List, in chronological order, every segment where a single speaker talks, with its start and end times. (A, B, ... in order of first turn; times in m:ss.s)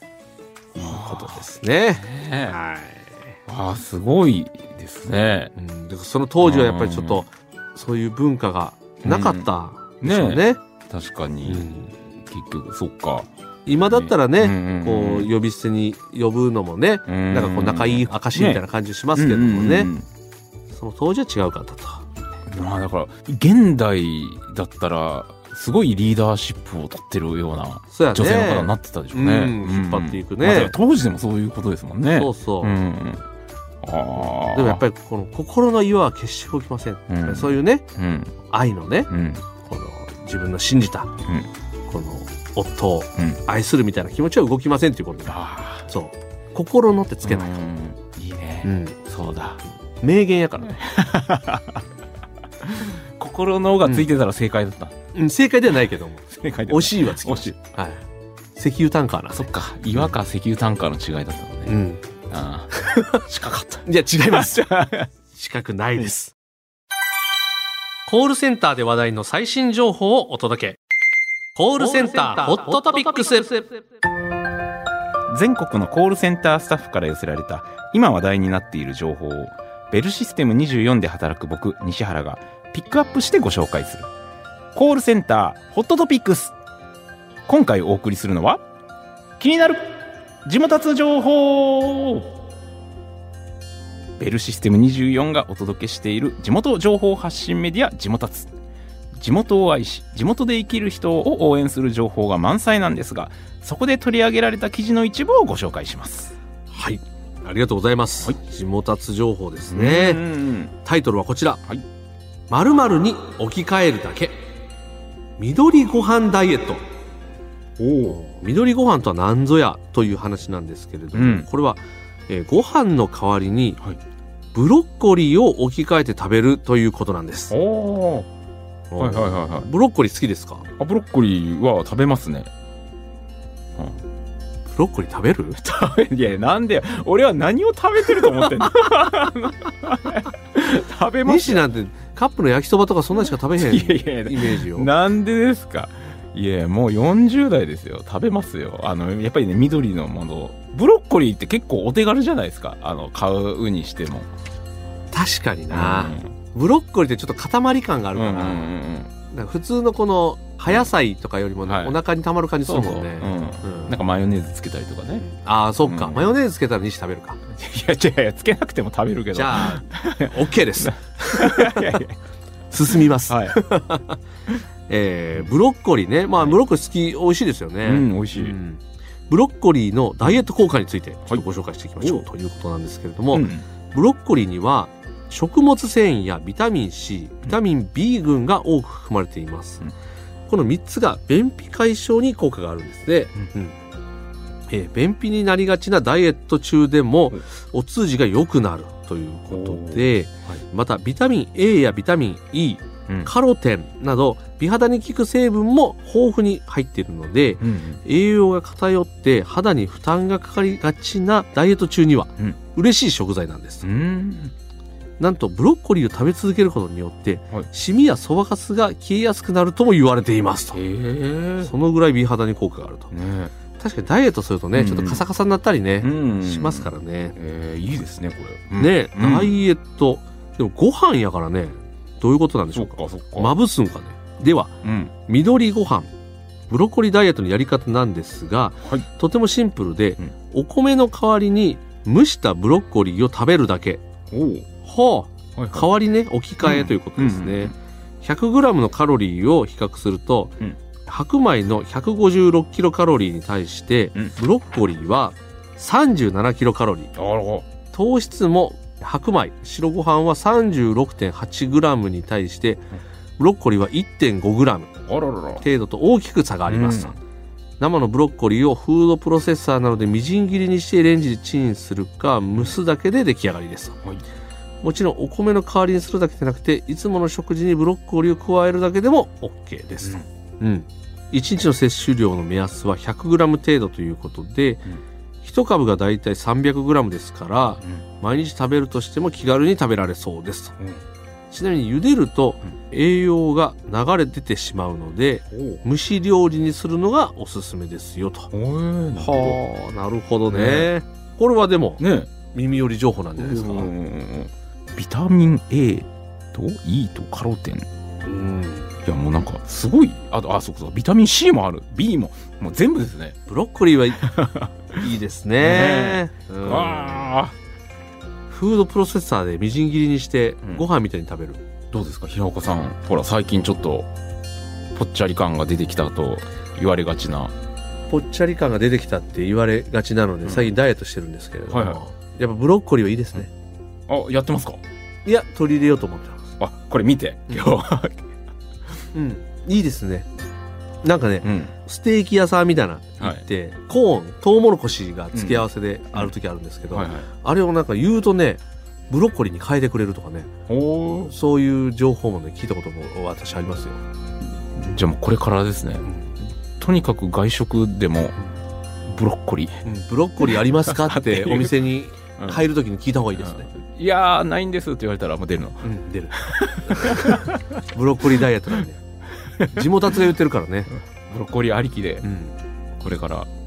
0:00.8-0:03.2 A
0:00.8-0:01.4 B
0:02.0-0:02.6 B
0:03.5-0:05.5 B
0:05.6-0:10.6 A
0:06.4-0:07.2 B
0:09.0-0:09.5 B
0:10.0-0:11.7 B
0:11.4-0:12.0 A
0:12.2-0:13.3 B
0:13.7-0:19.9 A
0:13.8-0:15.3 B
0:17.1-0:18.6 B
0:19.2-0:20.1 B
0:20.7-0:22.1 A
0:22.5-0:33.2 B
0:27.9-0:30.7 A
0:32.1-0:32.8 A
0:33.8-0:34.8 B
0:34.2-0:37.8 A
0:37.1-0:38.4 B
0:38.5-0:39.1 A
0:39.1-0:39.4 B
0:39.6-0:41.1 A
0:41.2-0:41.5 B
0:41.9-0:47.6 A
0:45.3-0:45.9 B
0:47.2-0:49.6 B
0:48.6-0:49.0 A
0:50.0-0:50.8 A
0:50.6-0:51.8 B
0:52.6-0:54.9 B
0:53.8-0:54.1 A
0:55.1-0:58.0 A
0:56.3-0:57.6 B
0:58.6-0:59.4 A
0:59.3-1:01.7 B
1:01.7-1:02.0 A
1:02.3-1:05.1 B
1:02.7-1:03.3 A
1:03.8-1:04.7 A
1:05.3-1:06.4 A
1:08.1-1:10.8 A
1:11.6-1:13.7 A
1:15.3-1:24.1 B
1:24.7-1:26.6 B
1:27.5-1:28.6 B
1:29.4-1:29.9 B
1:30.4-1:32.4 B
1:34.2-1:38.5 B
1:39.2-1:46.4 B
1:46.7-1:50.2 A
1:49.7-1:50.7 B
1:50.8-1:51.6 A
1:52.5-1:54.4 A
1:55.4-1:56.8 A
1:57.8-1:58.2 B
1:58.1-2:03.8 A
2:01.1-2:01.5 B
2:04.5-2:07.6 A
2:07.5-2:08.3 B
2:08.9-2:10.7 A
2:09.0-2:09.7 B
2:10.8-2:12.5 B
2:14.7-2:15.6 A
2:15.6-2:21.6 B
2:21.2-2:24.9 A
2:23.6-2:34.3 B
2:35.1-2:38.7 A
2:35.7-2:36.3 B
2:38.1-2:39.1 B
2:39.3-2:44.0 A
2:41.7-2:42.0 B
2:42.7-2:45.2 B
2:45.2-2:47.4 A
2:45.8-2:46.3 B
2:47.5-2:52.2 B
2:49.3-2:52.0 A
2:52.7-2:54.2 A
2:53.3-2:53.6 B
2:54.9-3:09.9 A
2:57.8-2:58.6 B
3:02.0-3:02.3 B
3:03.3-3:03.6 B
3:10.5-3:13.8 A
3:14.7-3:33.9 A
3:19.5-3:20.6 B
3:27.6-3:28.0 B
3:33.8-3:34.5 B
3:35.2-3:40.8 A
3:40.7-3:41.7 B
3:41.6-3:43.1 A
3:43.1-3:43.5 B
3:43.8-3:47.4 A
3:44.7-3:45.2 B
3:46.0-3:49.5 B
3:48.8-3:54.7 A
3:52.8-3:53.5 B
3:54.8-3:55.1 B
3:55.3-3:56.1 A
3:56.7-4:04.0 A
4:04.3-4:04.7 B
4:04.8-4:17.1 A
4:05.6-4:05.9 B
4:06.6-4:07.7 B
4:17.2-4:17.7 B
4:17.9-4:22.9 A
4:23.4-4:24.9 A
4:25.1-4:25.7 B
4:25.6-4:27.2 A
4:26.7-4:27.2 B
4:27.8-4:34.0 A
4:34.8-4:44.9 A
4:45.4-4:50.8 A
4:51.5-4:58.5 A
4:55.5-4:55.8 B
4:58.5-4:59.6 B
4:59.2-5:03.9 A
5:00.5-5:00.9 B
5:02.0-5:02.3 B
5:03.4-5:07.9 B
5:08.2-5:08.9 A
5:09.0-5:13.4 B
5:13.5-5:14.2 A
5:14.2-5:14.7 B
5:15.0-5:17.4 A
5:15.6-5:17.6 B
5:18.5-5:21.6 A
5:21.9-5:24.1 B
5:24.9-5:27.5 B
5:28.1-5:33.5 A
5:30.4-5:30.7 B
5:31.7-5:32.0 B
5:34.1-5:34.8 B
5:35.2-5:36.5 A
5:36.6-5:38.2 B
5:39.1-5:40.3 A
5:41.0-5:50.5 A
5:41.4-5:41.7 B
5:45.3-5:46.3 B
5:46.9-5:47.3 B
5:50.7-5:51.3 B
5:51.3-5:54.0 A
5:54.7-5:56.1 B
5:56.8-5:58.4 B
5:59.0-5:59.8 B
5:59.8-6:03.7 A
6:00.4-6:01.8 B
6:02.4-6:02.6 B
6:03.4-6:07.6 B
6:05.8-6:09.0 A
6:09.7-6:10.9 A
6:11.3-6:12.3 B
6:12.2-6:12.6 A
6:13.0-6:13.5 B